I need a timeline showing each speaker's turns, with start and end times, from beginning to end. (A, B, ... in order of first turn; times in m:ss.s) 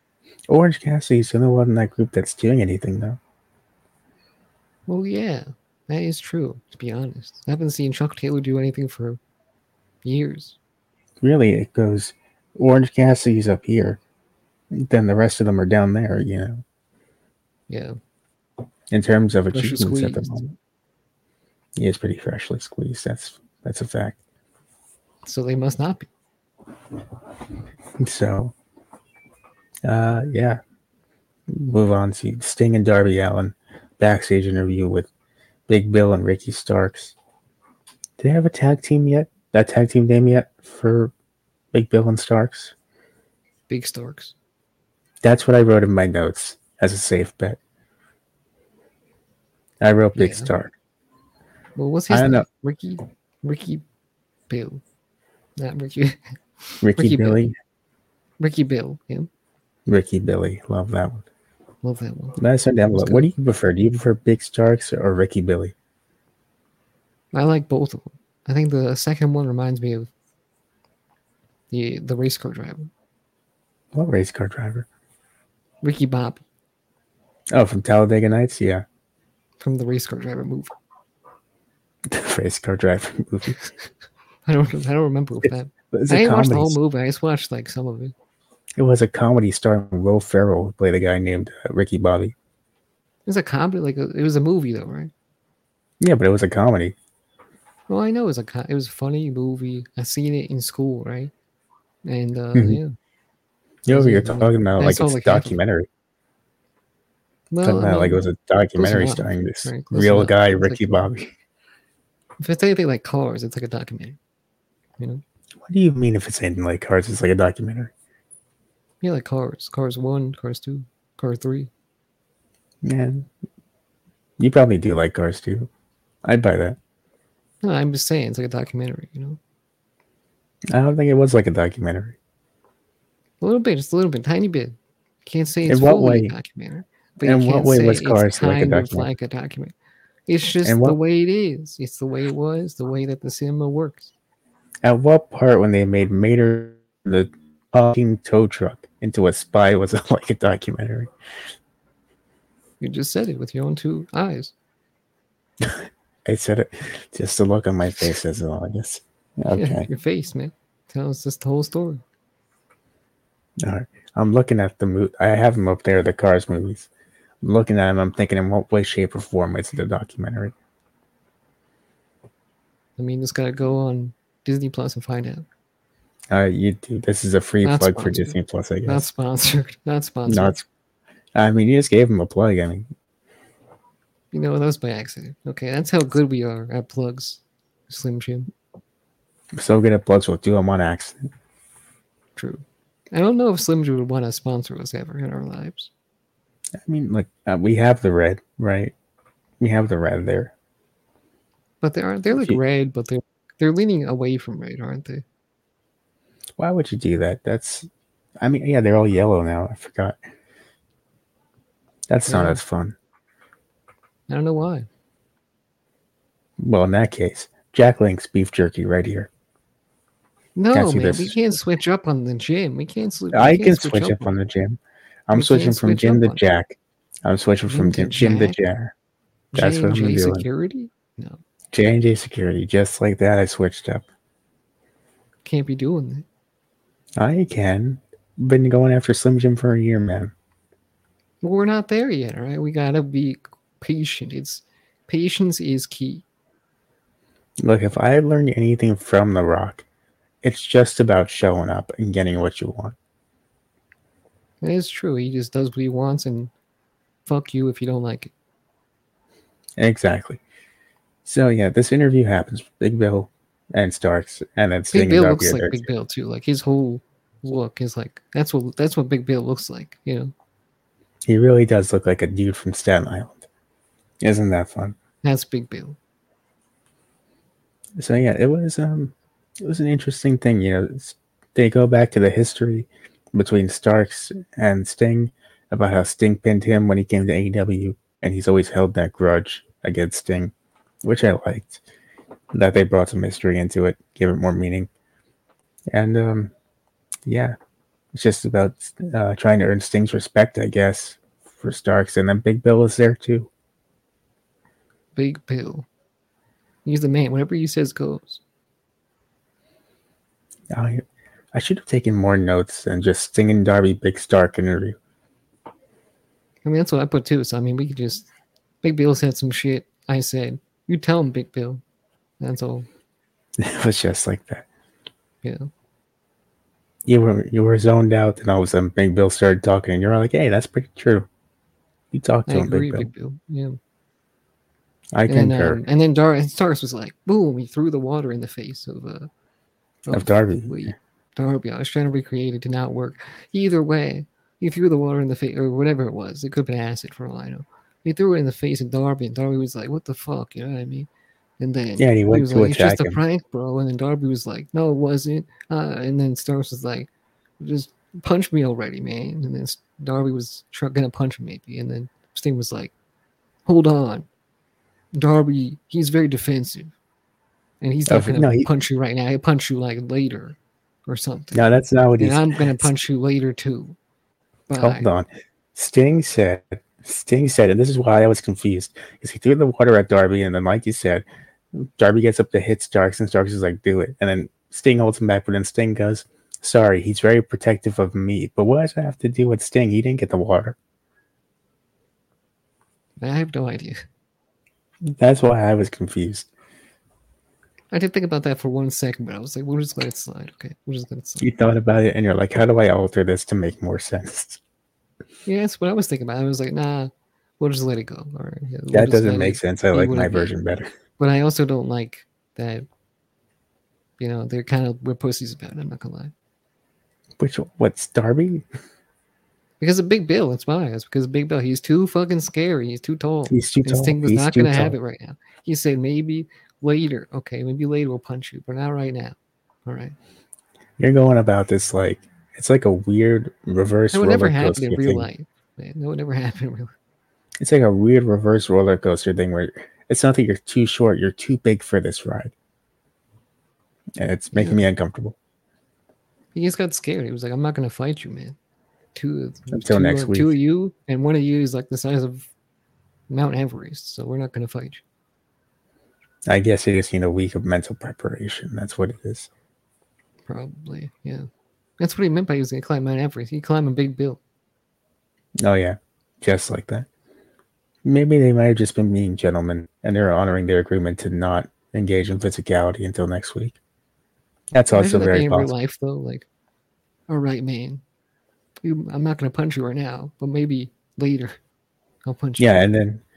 0:00.5-0:03.2 A
0:04.9-0:09.2 B
0:10.0-0:10.6 B
0:11.2-0:14.0 A
0:14.7-0:16.6 A
0:17.7-0:18.0 B
0:18.9-0:20.5 A
0:19.5-0:20.4 B
0:21.8-0:24.2 A
0:25.2-0:26.1 B
0:28.0-0:28.5 A
0:29.8-0:30.6 A
0:31.5-0:35.1 A
0:35.7-0:37.2 A
0:38.2-0:41.1 A
0:41.7-0:42.7 A
0:43.7-0:44.3 B
0:45.2-0:47.6 A
0:49.8-0:50.7 A
0:50.2-0:50.5 B
0:51.8-0:53.8 B
0:52.1-0:52.5 A
0:54.5-0:54.8 B
0:55.6-0:57.4 B
0:56.8-0:57.6 A
0:58.4-0:59.3 B
0:59.9-1:01.2 A
1:01.8-1:02.4 B
1:02.4-1:05.7 A
1:02.9-1:03.3 B
1:07.3-1:10.1 B
1:11.7-1:12.9 B
1:13.9-1:14.9 A
1:15.8-1:16.4 B
1:17.5-1:18.8 A
1:19.6-1:20.7 B
1:22.1-1:23.6 A
1:24.5-1:28.1 B
1:25.9-1:26.8 A
1:28.8-1:32.4 A
1:33.3-1:35.1 B
1:36.0-1:37.0 A
1:37.9-1:41.3 B
1:42.0-1:42.9 B
1:42.6-1:42.8 A
1:43.9-1:45.9 A
1:43.9-1:45.6 B
1:47.5-1:48.2 B
1:47.6-1:51.3 A
1:48.8-1:51.1 B
1:52.4-1:54.2 B
1:55.6-1:57.9 A
1:59.0-2:01.7 B
2:02.8-2:03.3 A
2:04.4-2:05.7 A
2:06.2-2:06.8 A
2:07.6-2:09.4 B
2:10.7-2:12.2 A
2:13.4-2:19.7 B
2:15.7-2:16.3 A
2:17.2-2:19.1 A
2:20.3-2:24.1 B
2:20.6-2:21.0 A
2:24.8-2:31.1 A
2:32.8-2:34.5 B
2:35.6-2:39.9 A
2:39.5-2:42.0 B
2:43.6-2:46.9 A
2:47.4-2:50.5 A
2:53.0-2:55.5 B
2:56.3-2:59.0 A
2:57.6-3:00.6 B
3:00.3-3:00.6 A
3:01.4-3:02.9 A
3:04.3-3:08.5 B
3:09.6-3:11.3 A
3:12.4-3:15.9 B
3:16.8-3:18.9 A
3:19.6-3:20.5 A
3:21.8-3:25.2 B
3:22.3-3:22.6 A
3:26.6-3:27.9 A
3:28.4-3:30.2 A
3:32.1-3:33.0 A
3:32.3-3:32.6 B
3:34.3-3:34.9 B
3:36.6-3:39.3 A
3:40.6-3:44.4 B
3:40.7-3:41.4 A
3:43.3-3:48.9 A
3:45.3-3:46.4 B
3:47.7-3:48.6 B
3:49.5-3:51.4 B
3:49.6-3:50.5 A
3:51.7-3:54.0 A
3:55.4-3:56.3 B
3:57.2-4:00.3 A
4:01.4-4:06.2 B
4:07.6-4:09.8 A
4:10.4-4:13.0 A
4:14.6-4:16.5 B
4:17.3-4:18.3 B
4:19.8-4:20.4 A
4:21.2-4:25.9 A
4:24.9-4:30.3 B
4:31.3-4:33.5 A
4:34.2-4:35.0 A
4:35.2-4:36.0 B
4:38.0-4:50.5 A
4:51.0-4:51.8 A
4:52.5-4:54.9 A
4:55.9-4:56.5 A
4:57.3-4:57.6 A
4:58.1-5:03.5 A
5:05.2-5:05.9 B
5:06.8-5:08.4 B
5:10.7-5:15.0 A
5:16.6-5:18.3 B
5:18.8-5:21.8 B
5:22.4-5:22.9 B
5:23.6-5:24.7 A
5:25.4-5:25.7 B
5:27.1-5:31.3 A
5:32.1-5:33.1 A
5:32.5-5:33.8 B
5:35.1-5:35.8 A
5:35.3-5:39.3 B
5:40.1-5:51.1 B
5:40.1-5:40.9 A
5:51.6-5:57.1 B
5:52.0-5:53.2 A
5:57.6-6:02.9 B
6:03.7-6:04.3 B
6:05.1-6:06.9 B
6:07.8-6:11.6 B
6:08.1-6:08.7 A
6:11.5-6:12.9 A
6:12.2-6:14.0 B
6:14.7-6:15.1 B
6:14.8-6:30.8 A
6:33.2-6:34.0 B
6:35.1-6:36.5 A
6:37.9-6:41.5 B
6:41.4-6:44.6 A
6:45.5-6:50.5 B
6:48.9-6:50.9 A
6:51.2-6:52.9 B
6:54.2-6:56.3 B
6:57.4-6:58.6 A
6:59.8-7:10.2 B
7:03.5-7:05.0 A
7:11.0-7:15.3 A
7:14.1-7:16.9 B
7:17.6-7:22.5 A
7:24.2-7:25.4 A
7:24.5-7:24.8 B
7:26.5-7:28.6 B
7:29.1-7:32.5 B
7:29.7-7:30.6 A
7:33.3-7:35.0 B
7:36.5-7:39.5 A
7:40.5-7:41.5 B
7:42.0-7:44.4 B
7:45.6-7:47.1 A
7:48.0-7:53.8 A
7:54.7-7:55.7 A
7:54.9-7:56.5 B
7:57.3-7:58.0 B
7:58.8-8:01.6 B
8:02.2-8:02.8 B
8:02.6-8:03.2 A